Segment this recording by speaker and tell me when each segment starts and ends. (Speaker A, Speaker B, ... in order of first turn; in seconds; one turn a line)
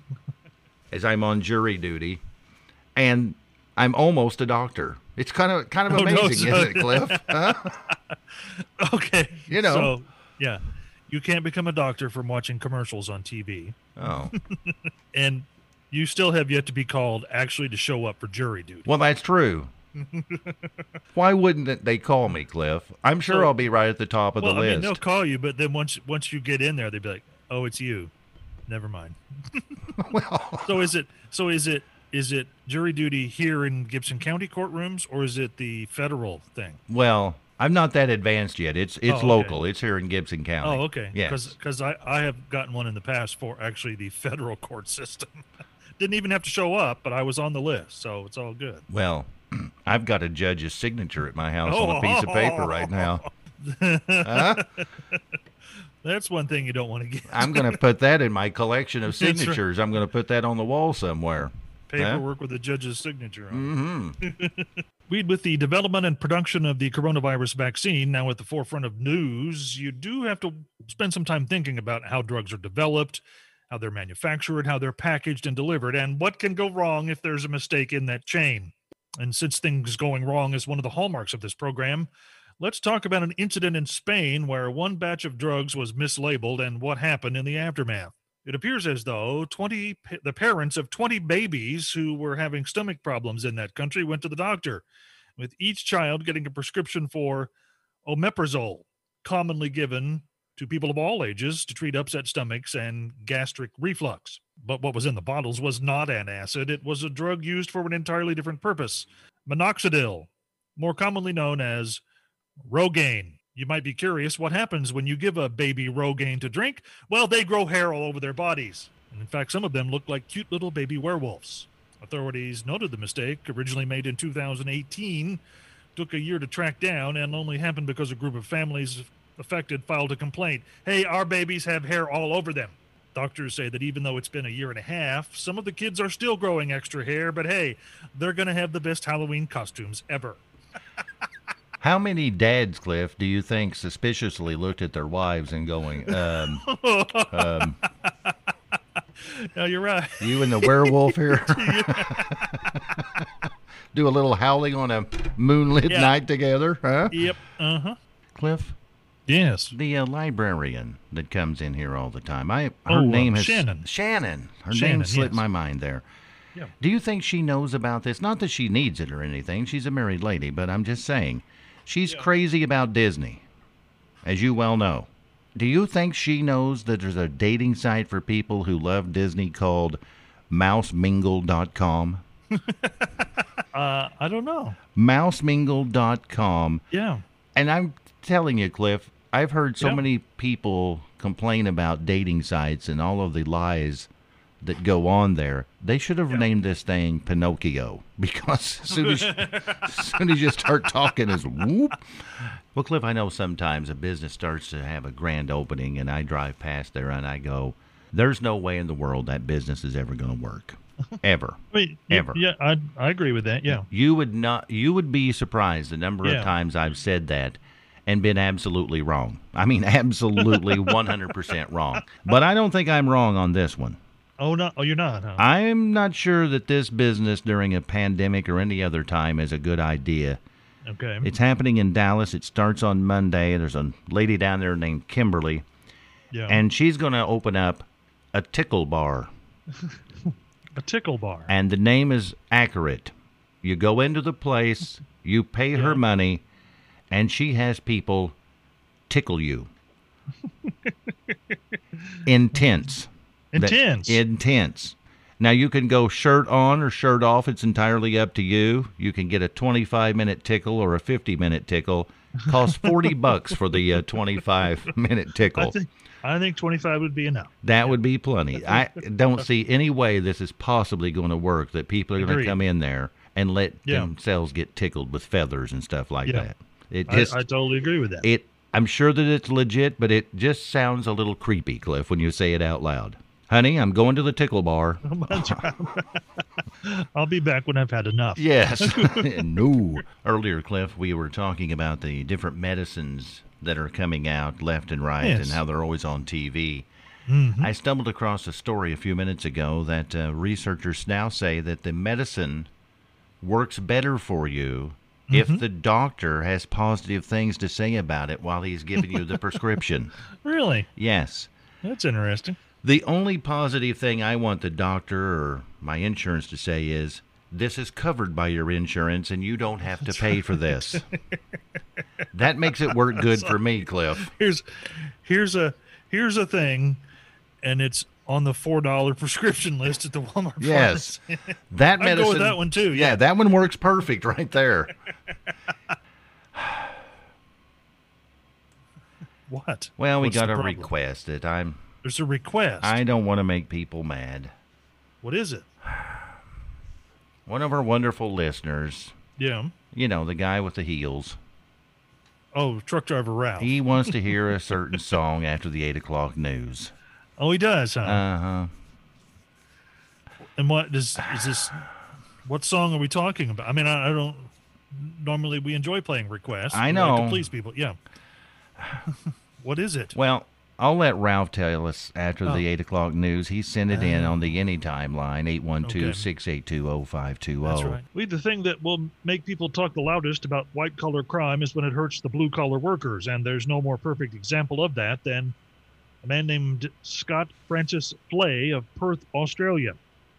Speaker A: 0.9-2.2
Speaker A: 3.0-7.8
Speaker B: 5.9-7.7
Speaker B: 8.8-13.7
Speaker A: 9.5-9.9
Speaker A: 13.9-14.3
Speaker B: 14.7-18.9
Speaker A: 18.9-19.7
Speaker B: 20.1-20.5
Speaker A: 21.1-25.0
Speaker B: 23.3-23.5
Speaker B: 24.4-28.1
Speaker B: 28.7-29.7
Speaker A: 30.0-30.9
Speaker B: 30.6-36.8
Speaker A: 36.9-41.5
Speaker B: 39.1-39.5
Speaker B: 40.6-45.4
Speaker B: 46.0-48.9
Speaker A: 48.9-53.2
Speaker B: 51.6-55.2
Speaker A: 54.2-54.7
Speaker B: 56.0-57.8
Speaker A: 57.3-62.2
Speaker B: 59.2-59.6
Speaker B: 61.9-82.1
Speaker A: 63.5-64.2
Speaker B: 82.6-94.8
Speaker B: 95.4-97.5
Speaker B: 98.0-112.0
Speaker B: 112.7-125.4
Speaker B: 126.0-140.4
Speaker A: 141.8-146.7
Speaker B: 146.1-148.3
Speaker A: 147.3-147.8
Speaker B: 149.2-152.8
Speaker A: 150.2-153.3
Speaker A: 153.9-157.2
Speaker B: 155.9-156.1
Speaker B: 157.1-157.9
Speaker A: 158.3-158.7
Speaker B: 159.3-159.7
Speaker A: 159.7-166.0
Speaker B: 162.9-163.8
Speaker B: 164.7-165.4
Speaker A: 166.8-173.4
Speaker A: 174.2-182.2
Speaker B: 183.7-184.8
Speaker A: 184.9-186.8
Speaker B: 186.9-187.2
Speaker A: 187.5-194.1
Speaker A: 194.6-202.0
Speaker B: 198.9-199.9
Speaker A: 202.7-212.4
Speaker B: 211.7-213.8
Speaker A: 213.7-224.0
Speaker B: 216.2-216.5
Speaker B: 220.4-220.9
Speaker B: 224.4-225.4
Speaker A: 225.4-230.4
Speaker B: 230.9-231.3
Speaker A: 231.2-235.6
Speaker B: 236.3-236.6
Speaker A: 236.5-239.3
Speaker B: 240.8-241.5
Speaker A: 241.5-246.4
Speaker B: 245.7-246.0
Speaker A: 247.1-248.3
Speaker A: 249.1-249.7
Speaker B: 250.7-250.9
Speaker A: 252.2-265.8
Speaker B: 253.5-254.2
Speaker B: 265.5-267.9
Speaker A: 267.6-277.4
Speaker B: 272.2-272.6
Speaker B: 277.1-278.3
Speaker A: 278.2-285.6
Speaker B: 285.0-286.2
Speaker B: 286.8-289.4
Speaker A: 288.4-296.9
Speaker B: 295.2-295.6
Speaker B: 297.3-297.7
Speaker A: 297.6-302.7
Speaker A: 303.4-310.1
Speaker B: 305.3-305.6
Speaker B: 310.4-310.9
Speaker A: 310.9-311.5
Speaker B: 311.8-312.6
Speaker A: 312.8-321.1
Speaker A: 322.3-324.3
Speaker B: 323.2-323.5
Speaker B: 324.2-324.6
Speaker B: 325.2-327.0
Speaker B: 327.6-333.2
Speaker A: 330.6-331.2
Speaker A: 331.7-334.9
Speaker A: 336.5-336.9
Speaker B: 339.5-340.9
Speaker A: 340.0-341.8
Speaker B: 342.0-343.0
Speaker A: 342.8-344.5
Speaker B: 345.2-345.7
Speaker A: 347.4-349.1
Speaker B: 349.4-349.7
Speaker A: 349.9-351.4
Speaker B: 352.5-354.1
Speaker A: 353.6-356.9
Speaker B: 357.4-358.2
Speaker A: 358.0-358.7
Speaker B: 360.6-361.9
Speaker B: 362.4-368.0
Speaker A: 366.7-367.5
Speaker B: 369.6-370.1
Speaker A: 370.1-378.0
Speaker B: 373.9-374.4
Speaker B: 375.8-376.2
Speaker B: 377.6-385.5
Speaker B: 386.2-389.9